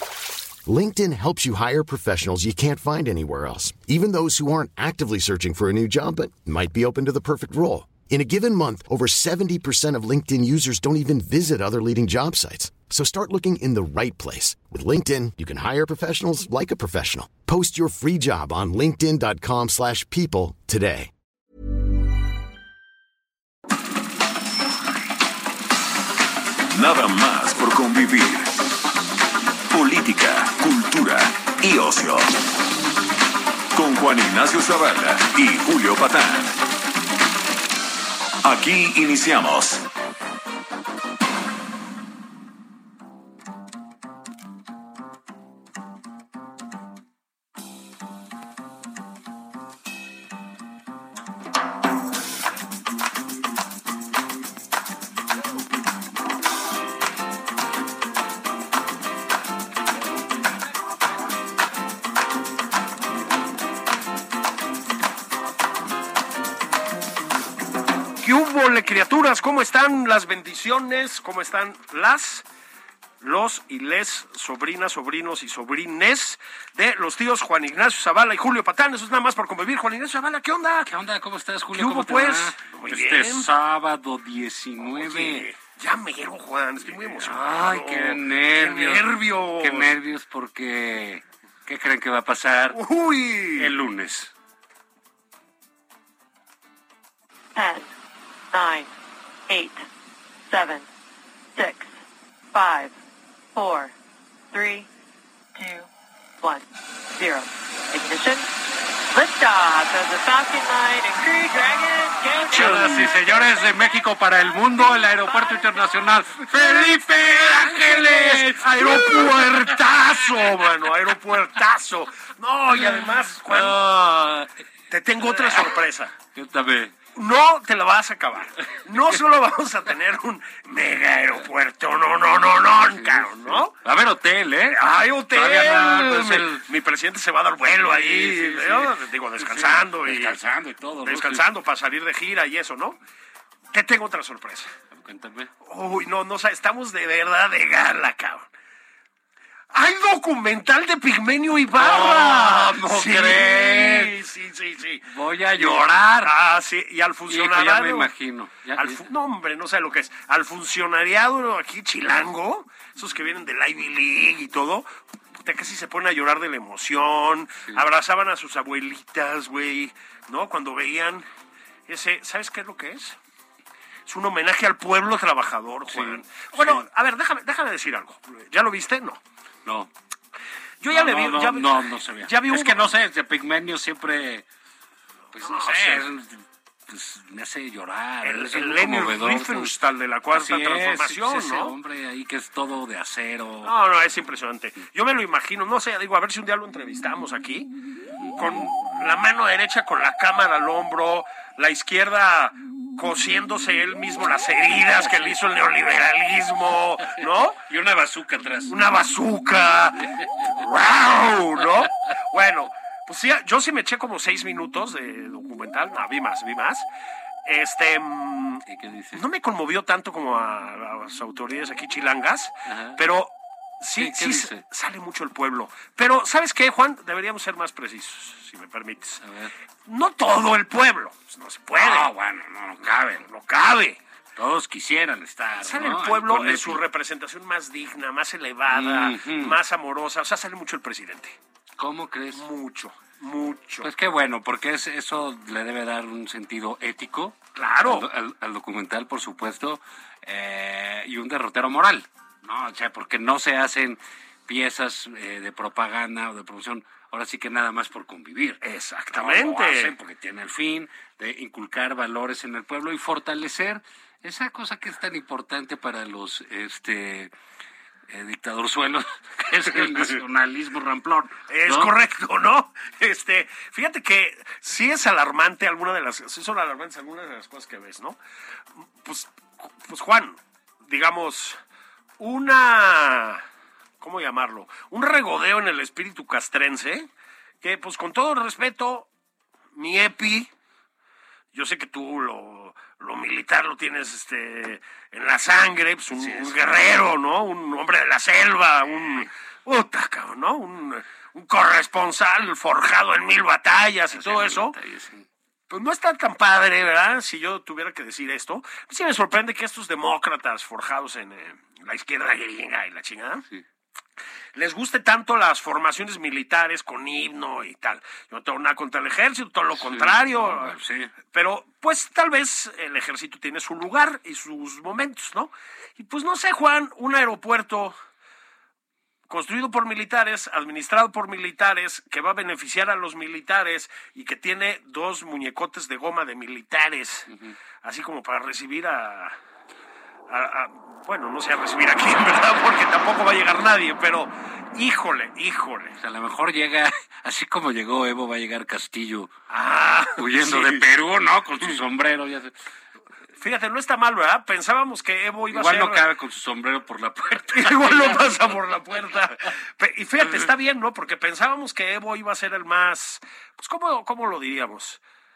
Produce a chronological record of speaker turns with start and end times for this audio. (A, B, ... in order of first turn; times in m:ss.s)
0:00.6-0:21.1 A
0:26.7-0:28.5 B
0:29.7-0:32.3 B
0:33.7-0:36.6 B
0:38.4-0:39.8 B
1:08.2-1:12.4 C
1:13.2-1:20.9 C
1:20.8-1:25.5 D
1:21.7-1:23.5 C
1:24.8-1:29.9 C
1:26.9-1:32.8 D
1:32.7-1:33.7 C
1:33.6-1:34.3 D
1:37.5-1:37.9 E
1:38.5-1:38.9 E
1:39.5-1:39.8 E
1:40.5-1:40.9 E
1:41.5-1:41.9 E
1:42.5-1:42.9 E
1:43.5-1:43.9 E
1:44.5-1:44.9 E
1:45.5-1:45.9 E
1:46.4-1:48.5 E
1:49.1-1:53.8 E
1:52.4-1:53.1 C
1:52.5-1:59.7 D
1:55.2-1:55.9 E
1:56.4-2:06.1 C
2:02.8-2:03.8 D
2:05.2-2:05.7 D
2:06.3-2:06.9 D
2:07.1-2:13.7 C
2:12.8-2:14.8 D
2:14.7-2:20.4 C
2:15.3-2:16.6 D
2:17.8-2:21.5 D
2:21.0-2:23.0 C
2:23.7-2:24.7 C
2:24.9-2:25.5 D
2:25.6-2:28.5 C
2:29.7-2:38.1 C
2:31.7-2:34.1 D
2:35.0-2:36.3 D
2:37.3-2:39.0 D
2:38.7-2:51.2 C
2:51.9-2:53.2 C
2:54.0-2:59.2 C
2:55.9-2:56.8 D
2:59.6-2:59.9 D
3:00.8-3:02.9 C
3:00.9-3:04.4 D
3:05.3-3:09.8 D
3:05.4-3:06.0 C
3:08.2-3:11.7 C
3:10.3-3:13.7 D
3:13.6-3:17.7 C
3:18.2-3:18.7 D
3:18.3-3:27.6 C
3:27.1-3:28.7 D
3:28.7-3:36.9 C
3:37.4-3:49.2 C
3:38.6-3:39.2 D
3:42.6-3:43.0 D
3:44.0-3:44.6 D
3:49.2-3:49.5 D
3:49.8-3:52.1 C
3:51.7-3:53.3 D
3:53.2-3:54.0 C
3:54.4-3:56.8 D
3:55.6-4:01.4 C
3:58.7-3:59.6 D
4:01.8-4:02.4 D
4:02.3-4:03.9 C
4:03.8-4:18.6 D
4:07.5-4:08.1 C
4:18.6-4:19.9 C
4:19.1-4:27.3 D
4:28.1-4:31.9 D
4:31.5-4:38.2 C
4:39.0-4:41.6 C
4:42.2-4:43.4 C
4:44.0-4:47.1 C
4:47.6-4:49.1 C
4:49.7-4:50.5 C
4:51.5-5:04.8 C
4:56.2-4:56.7 D
5:04.1-5:05.2 D
5:05.7-5:13.4 C
5:14.5-5:20.8 C
5:19.8-5:21.1 D
5:21.3-5:28.0 C
5:29.3-5:37.3 C
5:37.3-5:37.6 D
5:37.8-5:39.4 C
5:40.3-5:46.0 C
5:46.0-5:49.3 D
5:49.5-5:50.9 C
5:50.2-5:52.5 D
5:53.4-5:56.0 C
5:55.5-5:58.4 D
5:57.5-6:05.0 C